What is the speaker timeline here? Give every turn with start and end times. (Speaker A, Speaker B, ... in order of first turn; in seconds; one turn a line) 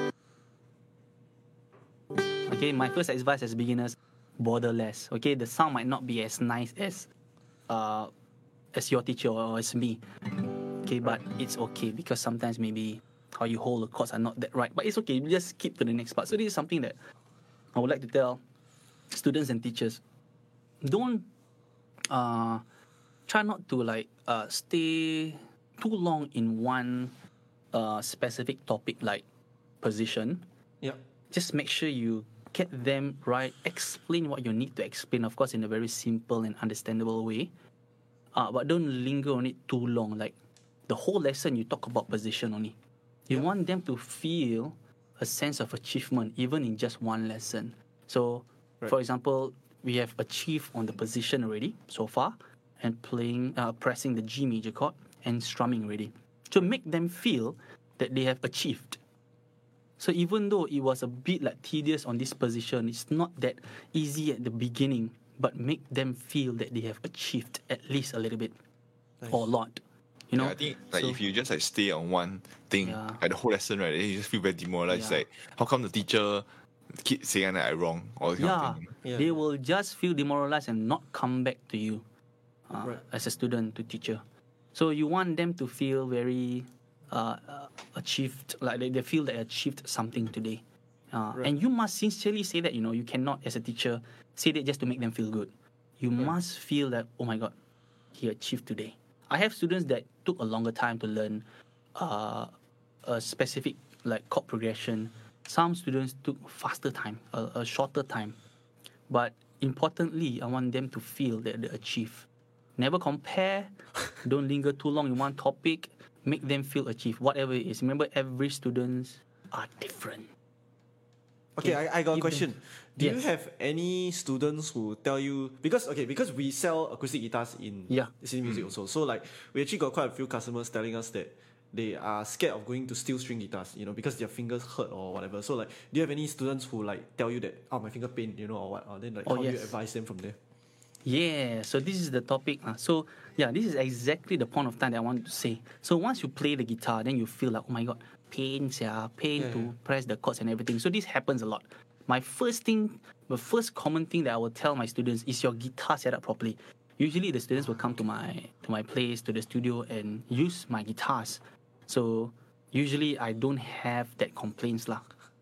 Speaker A: 2.4-7.1
Speaker A: 7.7-8.1
Speaker A: 8.7-10.0
Speaker A: 10.8-17.0
Speaker A: 17.7-18.4
Speaker A: 19.1-20.0
Speaker A: 20.8-21.3
Speaker A: 22.1-22.6
Speaker A: 23.3-27.1
Speaker A: 27.7-29.2
Speaker A: 29.8-30.4
Speaker A: 31.3-37.5
Speaker A: 38.3-40.3
Speaker A: 40.9-42.8
Speaker A: 43.3-59.0
Speaker A: 60.0-68.5
Speaker A: 69.3-71.2
Speaker B: 70.3-78.9
Speaker A: 72.8-73.2
Speaker A: 74.9-75.2
Speaker A: 78.4-82.0
Speaker C: 79.0-79.4
Speaker A: 82.7-84.2
Speaker A: 84.7-97.5
Speaker A: 98.1-101.4
Speaker A: 102.0-102.5
Speaker A: 103.0-108.4
Speaker A: 109.1-120.3
Speaker C: 121.6-140.4
Speaker A: 121.6-123.2
Speaker A: 139.2-139.7
Speaker A: 141.0-165.1
Speaker C: 149.4-149.7